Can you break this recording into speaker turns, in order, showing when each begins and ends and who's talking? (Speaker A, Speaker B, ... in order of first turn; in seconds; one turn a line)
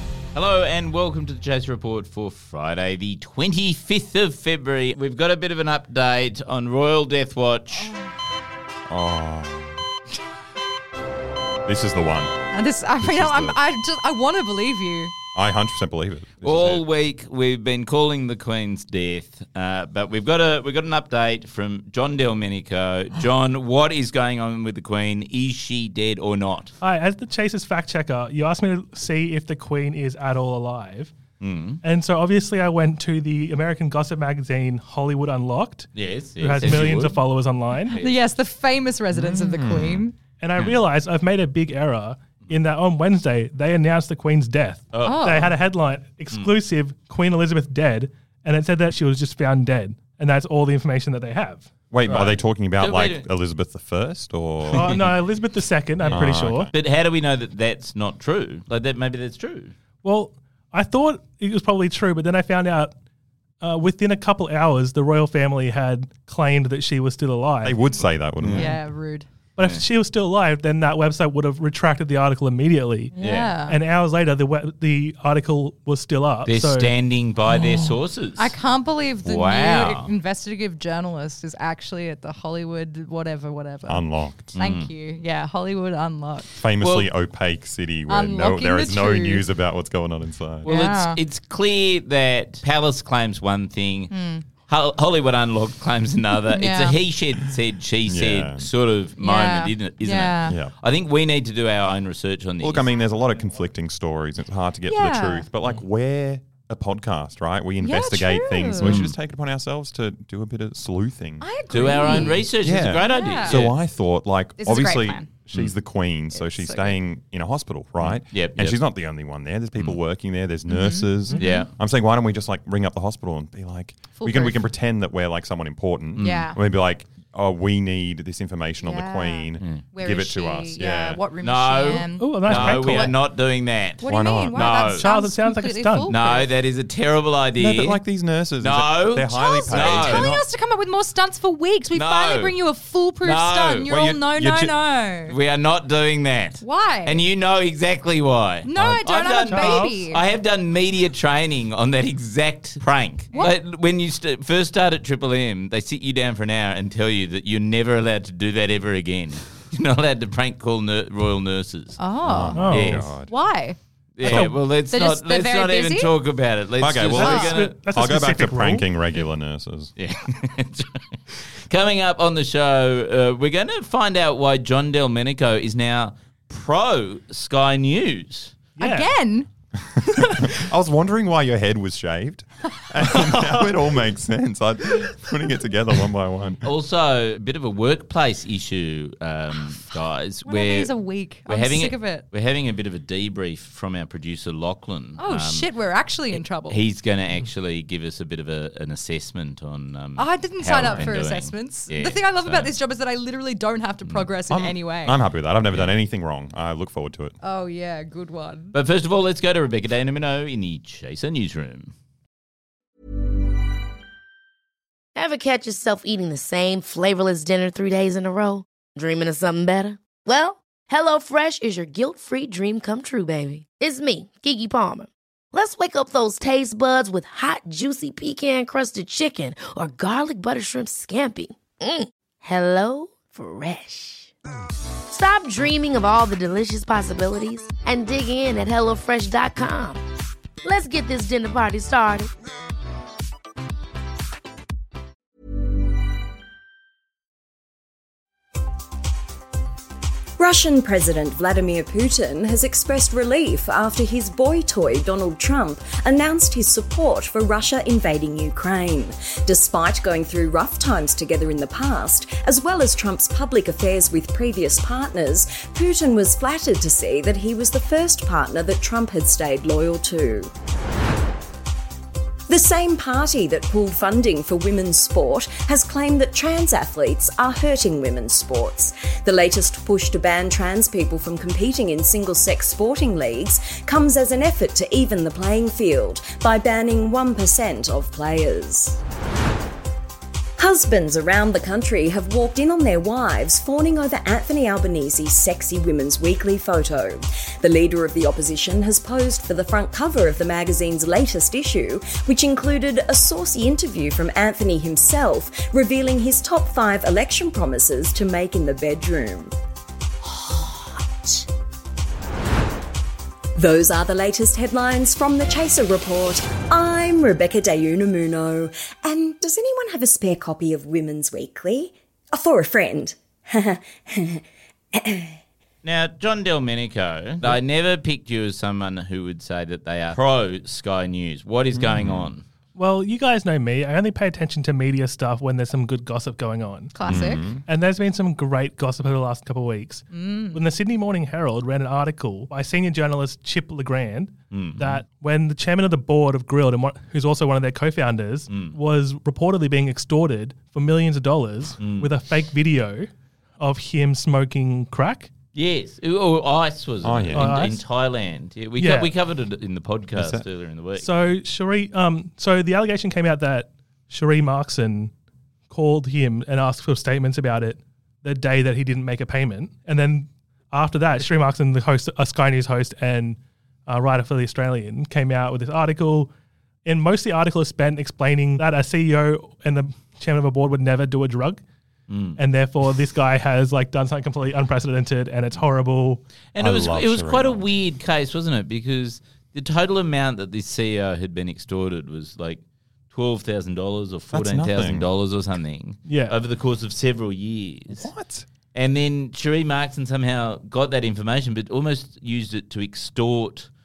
Speaker A: 0.3-7.9
Speaker B: 7.7-8.0
Speaker C: 8.9-9.8
Speaker C: 11.7-12.3
Speaker B: 12.5-15.1
Speaker C: 13.0-13.6
Speaker C: 15.3-16.8
Speaker A: 16.4-26.7
Speaker D: 26.8-31.1
Speaker A: 31.4-31.8
Speaker D: 31.8-38.0
Speaker A: 35.9-37.3
Speaker A: 37.8-38.2
Speaker B: 38.0-40.2
Speaker C: 39.1-40.0
Speaker D: 40.4-52.3
Speaker A: 40.6-40.8
Speaker A: 44.9-45.5
Speaker B: 45.0-45.5
Speaker A: 46.3-46.6
Speaker C: 51.9-55.0
Speaker A: 52.8-53.2
Speaker D: 54.7-56.7
Speaker A: 56.0-59.7
Speaker C: 56.1-56.7
Speaker D: 60.0-62.9
Speaker D: 63.6-67.8
Speaker C: 67.6-68.8
Speaker A: 68.4-68.8
Speaker B: 68.6-69.3
Speaker D: 69.6-76.9
Speaker B: 73.1-73.8
Speaker A: 73.2-73.5
Speaker A: 76.4-78.5
Speaker B: 77.5-86.5
Speaker A: 79.2-80.1
Speaker C: 83.8-84.6
Speaker A: 84.5-84.9
Speaker C: 86.6-90.7
Speaker A: 86.8-87.1
Speaker B: 88.1-89.4
Speaker A: 90.6-94.1
Speaker B: 90.7-91.2
Speaker B: 94.1-94.5
Speaker A: 94.6-102.9
Speaker B: 96.5-97.0
Speaker C: 98.1-98.7
Speaker B: 99.2-100.5
Speaker C: 102.6-131.2
Speaker B: 104.9-105.5
Speaker B: 107.8-109.0
Speaker A: 108.8-109.2
Speaker B: 111.4-113.6
Speaker A: 111.7-113.8
Speaker B: 114.6-115.3
Speaker B: 116.3-117.0
Speaker A: 118.0-118.8
Speaker B: 120.7-121.7
Speaker A: 121.3-121.7
Speaker B: 124.1-124.7
Speaker A: 126.2-126.5
Speaker B: 126.2-126.6
Speaker B: 128.8-133.1
Speaker A: 131.4-135.1
Speaker D: 131.9-133.1
Speaker B: 134.0-136.6
Speaker C: 134.0-134.8
Speaker D: 134.9-136.1
Speaker A: 136.1-138.0
Speaker C: 137.6-140.5
Speaker A: 138.6-140.3
Speaker B: 139.3-145.3
Speaker A: 141.9-142.6
Speaker A: 143.2-143.9
Speaker C: 143.9-144.7
Speaker A: 145.3-162.0
Speaker B: 146.6-147.2
Speaker B: 148.6-150.2
Speaker D: 148.8-149.9
Speaker B: 153.3-153.6
Speaker B: 162.0-166.1
Speaker C: 162.2-163.3
Speaker D: 162.5-162.9
Speaker A: 162.7-163.1
Speaker A: 164.2-167.8
Speaker C: 164.2-164.6
Speaker C: 166.8-169.9
Speaker B: 167.2-167.6
Speaker D: 167.4-168.8
Speaker A: 170.0-171.0
Speaker A: 171.7-178.6
Speaker D: 178.8-179.1
Speaker B: 178.8-179.5
Speaker C: 180.4-186.6
Speaker A: 186.6-195.7
Speaker B: 189.5-192.2
Speaker B: 195.2-196.8
Speaker A: 196.3-202.7
Speaker B: 200.2-205.2
Speaker C: 200.8-201.2
Speaker A: 204.1-204.3
Speaker C: 204.5-207.4
Speaker B: 207.4-208.7
Speaker A: 208.7-211.9
Speaker E: 215.2-234.3
Speaker E: 235.1-240.0
Speaker E: 240.6-242.3
Speaker F: 250.4-270.5
Speaker F: 272.5-289.0
Speaker F: 290.6-309.5
Speaker F: 313.6-324.4
Speaker A: 325.8-332.4
Speaker C: 331.7-332.3
Speaker D: 332.7-355.3
Speaker B: 336.9-337.6
Speaker C: 337.0-337.6
Speaker B: 340.1-340.6
Speaker A: 344.5-345.0
Speaker A: 348.5-348.8
Speaker A: 351.8-352.1
Speaker A: 355.5-361.3
Speaker C: 357.0-357.5
Speaker D: 357.3-357.8
Speaker D: 358.8-359.1
Speaker C: 360.1-360.4
Speaker D: 361.0-365.1
Speaker D: 365.7-376.3
Speaker D: 376.9-381.6
Speaker A: 382.1-382.4
Speaker D: 382.4-386.2
Speaker A: 386.5-398.1
Speaker C: 386.6-387.6
Speaker C: 394.3-395.1
Speaker D: 396.1-396.3
Speaker C: 397.9-398.5
Speaker A: 398.7-403.7